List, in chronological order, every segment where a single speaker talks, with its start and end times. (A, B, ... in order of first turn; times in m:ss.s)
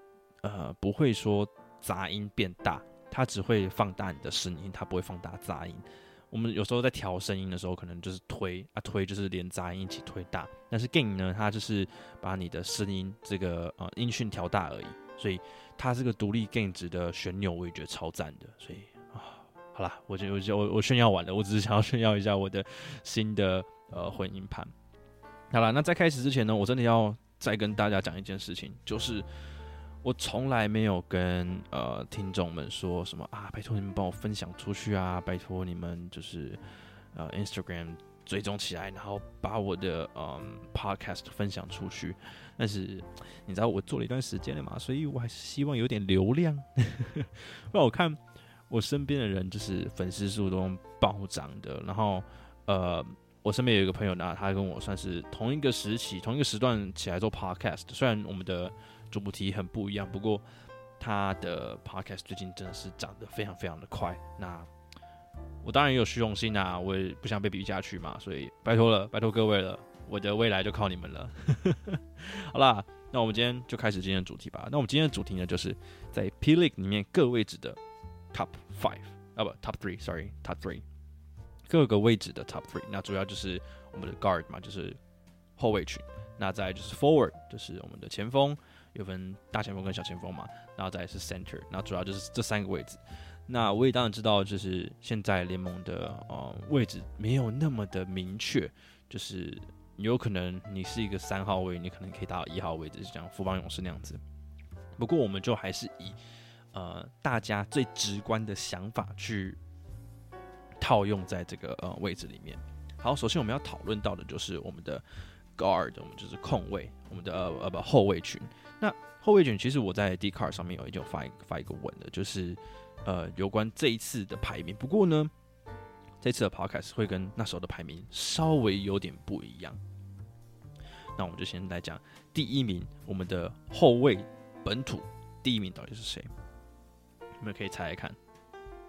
0:00.4-0:24.7 A
0:25.5-0:29.3 A
0:30.0-0:36.6 A
0:37.1-0:48.2 A
0:48.7-1:00.4 A
1:01.0-1:04.7 A
1:05.6-1:17.8 A
1:18.3-1:20.8 A
1:21.7-1:25.0 A
1:25.6-1:44.2 A
1:45.0-1:46.2 A
1:46.7-1:49.6 A
1:50.8-1:55.0 A
1:55.6-2:05.3 A
2:06.2-2:09.8 A
2:11.2-2:16.3 A
2:17.4-2:18.2 A